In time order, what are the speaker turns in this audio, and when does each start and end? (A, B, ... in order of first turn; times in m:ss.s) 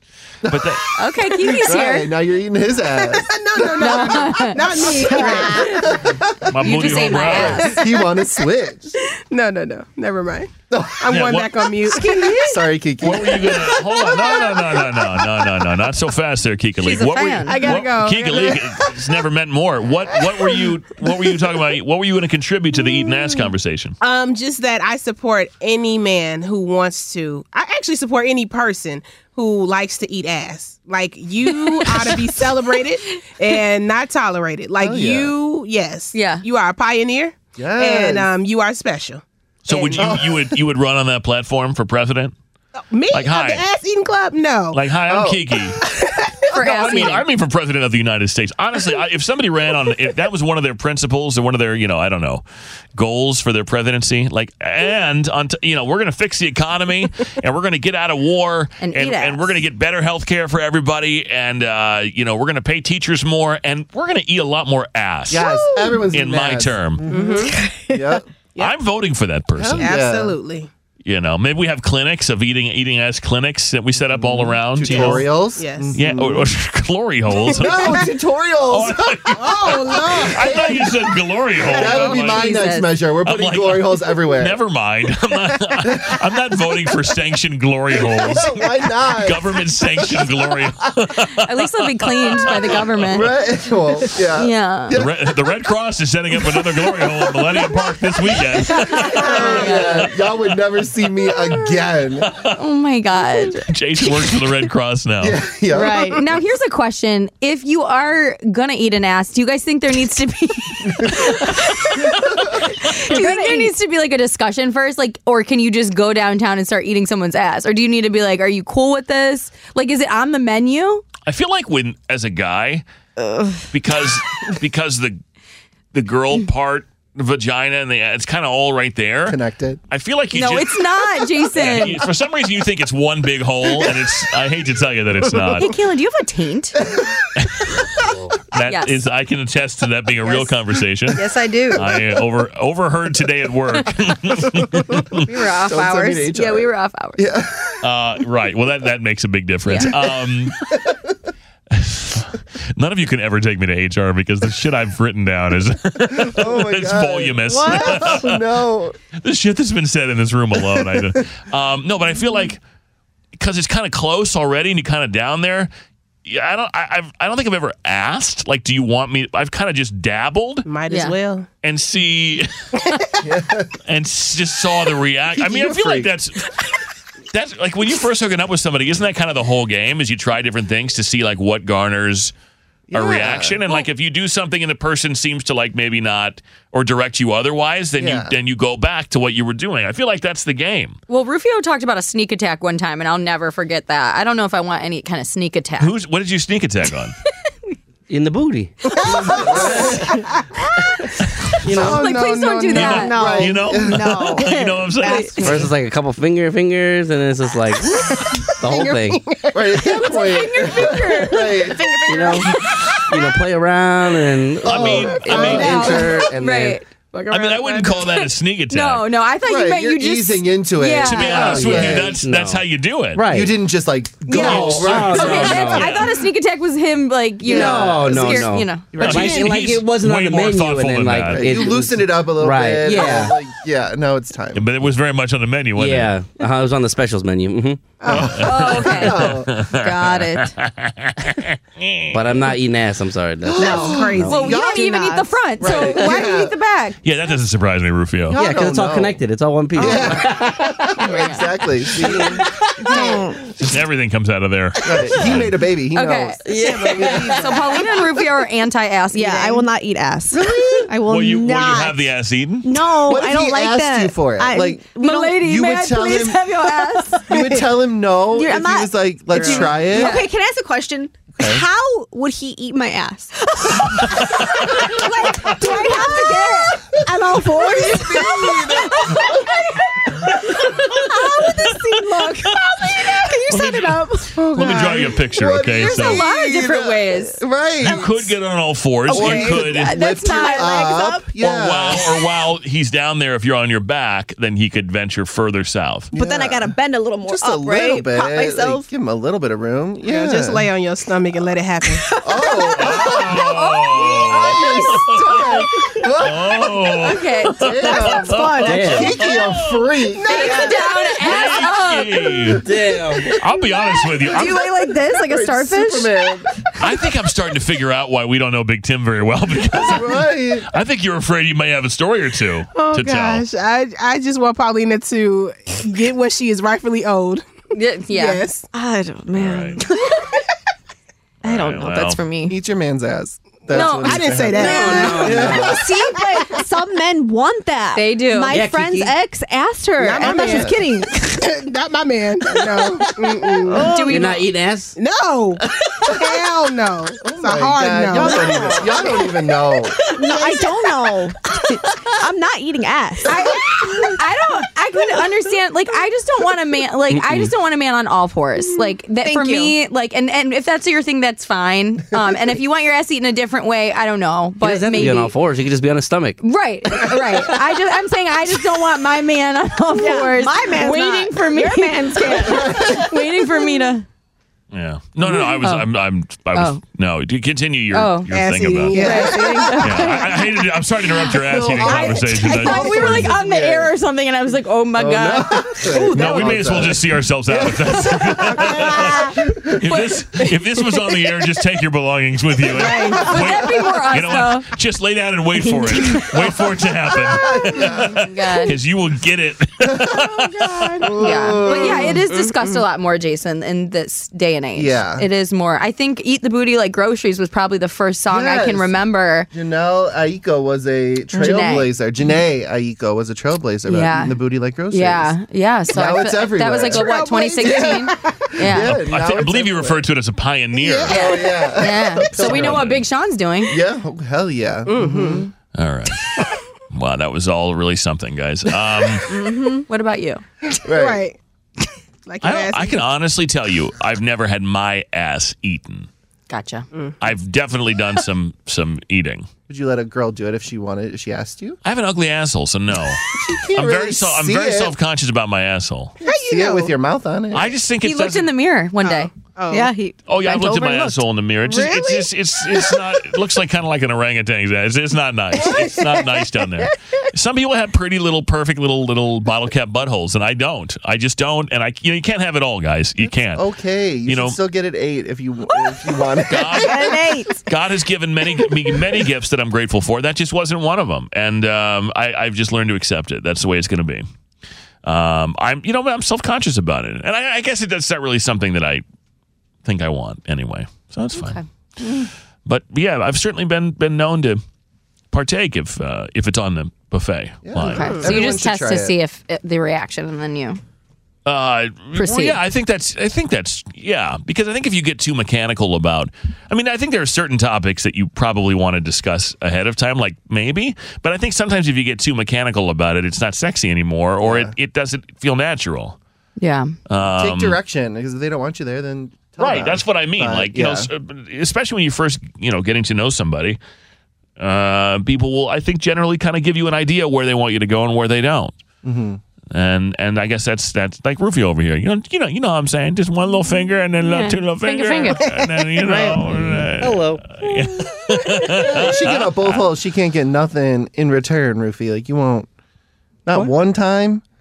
0:00.4-0:00.8 A
0:00.5-0:00.9 B
0:00.9-0:02.1 C
0:01.4-0:04.0 A
0:02.9-0:05.9 D
0:03.8-0:05.8 C
0:05.0-0:05.4 E
0:05.2-0:08.9 A
0:06.5-0:07.7 B
0:06.6-0:07.8 C
0:09.3-0:12.4 D
0:10.7-0:11.2 A
0:11.1-0:11.6 B
0:12.0-0:12.6 C
0:12.3-0:13.8 A
0:13.0-0:24.0 B
0:16.8-0:17.8 C
0:17.4-0:18.8 D
0:24.0-0:40.1 D
0:34.8-0:35.3 A
0:36.1-0:36.4 C
0:37.6-0:38.3 A
0:39.6-0:42.3 B
0:40.0-0:40.5 A
0:42.9-0:44.8 D
0:43.1-0:43.6 B
0:44.7-0:45.8 B
0:45.1-0:45.4 A
0:45.8-0:46.4 D
0:46.5-0:47.2 C
0:46.6-0:52.4 B
0:52.9-1:05.4 B
0:58.8-0:59.6 C
1:05.3-1:08.2 A
1:06.1-1:07.0 B
1:07.1-1:07.6 D
1:07.4-1:08.0 E
1:08.6-1:09.9 B
1:09.6-1:10.4 A
1:09.8-1:10.7 D
1:11.0-1:15.3 B
1:14.0-1:16.5 A
1:14.8-1:16.0 D
1:15.9-1:18.1 B
1:17.5-1:21.1 A
1:18.7-1:22.6 B
1:19.4-1:20.5 D
1:21.6-1:24.6 A
1:21.9-1:22.9 C
1:23.2-1:33.1 B
1:25.8-1:26.2 A
1:28.0-1:30.7 A
1:31.4-1:33.4 C
1:33.1-1:35.4 A
1:34.4-1:35.0 C
1:34.9-1:40.1 B
1:36.9-1:37.1 A
1:38.6-1:40.1 C
1:38.9-1:42.4 A
1:42.2-1:42.6 B
1:42.6-1:43.7 C
1:43.6-1:45.4 B
1:45.2-1:46.2 A
1:45.7-1:46.2 E
1:46.0-2:01.0 C
1:53.1-1:53.7 E
2:01.2-2:02.8 B
2:03.2-2:03.6 E
2:03.7-2:05.2 B
2:05.9-2:09.4 B
2:09.2-2:09.8 A
2:09.9-2:15.7 B
2:10.3-2:12.0 C
2:15.5-2:16.8 C
2:17.4-2:17.8 B
2:18.5-2:21.2 B
2:18.6-2:19.0 C
2:21.1-2:21.9 C
2:21.7-2:25.2 B
2:25.2-2:27.2 C
2:25.6-2:27.8 A
2:27.8-2:30.6 B
2:29.6-2:29.9 C
2:30.7-2:31.1 A
2:31.7-2:38.4 B
2:36.1-2:39.0 A
2:37.5-2:38.2 E
2:39.2-2:42.6 B
2:40.7-2:41.2 A
2:43.4-2:45.7 B
2:46.2-2:50.7 B
2:50.6-2:51.5 D
2:50.9-2:51.2 C
2:51.6-2:52.5 B
2:53.2-2:53.8 A
2:53.9-2:56.5 B
2:55.4-2:56.1 A
2:57.3-3:02.3 B
3:02.9-3:03.7 A
3:02.9-3:11.0 B
3:08.0-3:08.3 A
3:11.1-3:15.9 C
3:15.8-3:17.2 B
3:18.1-3:18.8 F
3:19.1-3:20.2 A
3:19.1-3:20.3 D
3:21.6-3:22.0 F
3:21.7-3:23.3 C
3:21.7-3:24.4 A
3:21.8-3:23.0 D
3:22.7-3:25.5 B
3:22.8-3:25.7 E
3:25.4-3:29.2 F
3:28.0-3:32.7 D
3:29.5-3:31.8 A
3:30.3-3:31.3 C
3:30.6-3:32.5 E
3:32.1-3:32.5 F
3:33.1-3:36.4 F
3:34.6-3:35.9 B
3:34.6-3:36.8 A
3:34.9-3:36.1 D
3:35.2-3:36.9 C
3:37.1-3:38.2 D
3:37.3-3:39.0 B
3:38.7-3:41.6 C
3:39.4-3:42.2 A
3:41.0-3:43.2 B
3:41.3-3:42.6 F
3:43.2-3:43.6 F
3:43.2-3:45.9 A
3:44.3-3:49.3 C
3:44.3-3:46.1 B
3:44.4-3:45.9 F
3:47.4-3:53.4 F
3:47.4-3:49.7 A
3:49.0-3:51.7 B
3:51.2-3:54.6 A
3:54.5-3:56.2 B
3:55.8-3:57.9 F
3:58.0-3:58.6 D
3:58.0-3:59.6 A
3:58.1-4:02.2 B
3:58.4-4:00.5 C
4:02.1-4:04.4 F
4:03.4-4:05.0 A
4:03.6-4:05.7 E
4:03.7-4:04.3 D
4:04.2-4:07.0 C
4:05.6-4:06.5 A
4:07.0-4:08.4 B
4:08.3-4:09.2 A
4:08.4-4:11.0 F
4:09.7-4:12.4 A
4:11.0-4:11.5 C
4:11.9-4:12.4 F
4:12.8-4:13.3 C
4:12.8-4:13.4 E
4:13.6-4:15.5 B
4:14.8-4:17.6 A
4:15.9-4:16.4 C
4:16.5-4:17.3 F
4:16.5-4:17.9 D
4:17.2-4:19.6 C
4:19.1-4:22.0 E
4:20.3-4:20.9 A
4:21.0-4:22.8 B
4:22.6-4:26.1 E
4:23.0-4:26.5 A
4:25.0-4:27.3 C
4:26.6-4:27.5 E
4:27.3-4:30.2 A
4:27.4-4:27.6 D
4:28.3-4:44.8 E
4:29.4-4:29.8 D
4:29.9-4:30.3 C
4:31.4-4:31.6 A
4:35.6-4:36.1 A
4:37.1-4:39.5 A
4:43.5-4:46.2 B
4:44.5-4:48.3 A
4:45.6-4:47.4 C
4:47.8-4:49.9 B
4:49.1-4:51.3 E
4:49.1-4:52.2 A
4:49.6-4:50.7 C
4:51.4-4:56.1 B
4:56.1-5:00.7 A
4:56.1-4:58.9 E
5:00.0-5:02.1 D
5:01.9-5:03.0 E
5:02.2-5:10.6 A
5:02.8-5:05.7 B
5:03.7-5:04.3 C
5:06.2-5:09.8 B
5:07.0-5:08.0 C
5:07.9-5:09.1 E
5:08.6-5:09.1 F
5:10.2-5:11.4 D
5:10.3-5:12.6 C
5:10.4-5:10.7 E
5:11.2-5:12.6 B
5:12.6-5:13.3 F
5:13.4-5:14.6 B
5:14.2-5:16.4 E
5:14.3-5:14.6 A
5:15.1-5:16.5 A
5:16.8-5:23.4 B
5:19.8-5:20.7 A
5:22.8-5:27.5 D
5:27.7-5:28.4 C
5:28.1-5:28.7 D
5:28.7-5:30.3 E
5:29.3-5:29.8 B
5:31.4-5:32.2 B
5:31.4-5:32.6 E
5:32.4-5:36.0 A
5:33.7-5:35.6 D
5:33.7-5:34.2 C
5:34.6-5:41.4 E
5:34.6-5:35.8 F
5:37.9-5:38.6 C
5:38.5-5:39.2 F
5:40.0-5:40.8 D
5:40.2-5:40.8 A
5:41.4-5:44.2 D
5:43.7-5:44.2 E
5:43.8-5:44.4 C
5:44.0-5:45.0 F
5:44.9-5:49.3 D
5:47.2-5:50.0 A
5:48.2-5:49.2 E
5:50.1-5:53.6 E
5:50.2-5:50.7 D
5:53.2-6:05.4 C
5:57.1-5:57.5 F
5:58.7-5:59.8 E
6:04.6-6:06.4 F
6:06.4-6:14.1 C
6:09.9-6:13.8 E
6:12.5-6:12.9 A
6:14.7-6:19.0 B
6:15.5-6:15.9 C
6:16.5-6:16.8 C
6:17.9-6:18.3 C
6:18.3-6:19.8 D
6:18.9-6:20.2 E
6:18.9-6:20.4 C
6:19.0-6:19.7 A
6:19.8-6:23.3 B
6:21.6-6:26.6 C
6:21.6-6:22.2 A
6:22.6-6:23.2 E
6:22.9-6:23.9 A
6:25.0-6:29.8 A
6:25.9-6:26.5 E
6:26.1-6:41.0 B
6:28.9-6:29.3 E
6:32.7-6:33.5 E
6:33.0-6:34.7 C
6:35.8-6:36.4 E
6:37.3-6:38.3 A
6:38.2-6:38.8 C
6:39.8-6:40.1 A
6:40.3-6:41.2 E
6:41.0-6:42.2 A
6:41.2-6:49.5 C
6:41.6-6:42.8 D
6:44.8-6:45.2 A
6:48.3-6:48.9 A
6:49.5-6:55.4 A
6:51.4-6:51.7 E
6:51.4-6:51.9 C
6:53.9-6:59.0 C
6:55.9-7:00.0 A
6:56.9-6:58.5 D
6:58.8-7:01.2 B
7:00.8-7:03.0 A
7:01.1-7:03.8 C
7:02.4-7:03.0 B
7:03.7-7:05.4 A
7:04.9-7:05.5 D
7:05.7-7:06.3 B
7:06.9-7:09.3 B
7:09.3-7:09.8 E
7:09.9-7:10.4 C
7:10.8-7:11.2 A
7:10.9-7:11.4 D
7:12.2-7:13.0 D
7:12.4-7:16.1 B
7:16.5-7:16.8 C
7:17.2-7:19.5 B
7:19.7-7:21.8 A
7:21.8-7:23.2 B
7:23.3-7:24.9 A
7:23.7-7:26.1 B
7:26.2-7:26.9 D
7:26.5-7:27.7 A
7:27.5-7:28.5 B
7:28.0-7:29.3 C
7:29.0-7:29.9 D
7:29.7-7:32.1 E
7:30.3-7:43.6 B
7:43.2-7:47.2 A
7:44.2-7:44.6 B
7:46.5-7:54.3 B
7:46.7-7:47.6 E
7:55.0-7:59.0 B
7:59.8-8:01.6 B
8:01.4-8:01.6 C
8:02.6-8:04.6 B
8:05.3-8:08.2 B
8:07.6-8:09.1 A
8:07.9-8:10.8 C
8:08.0-8:08.4 D
8:11.4-8:26.2 B
8:12.1-8:12.6 C
8:24.4-8:24.7 A
8:26.6-8:26.9 C
8:27.1-8:27.8 B
8:27.2-8:31.1 A
8:29.6-8:33.8 B
8:34.6-8:38.7 B
8:39.0-8:39.4 A
8:39.7-8:49.8 B
8:44.2-8:45.5 C
8:46.1-8:47.4 F
8:48.9-8:52.7 A
8:53.4-8:54.4 A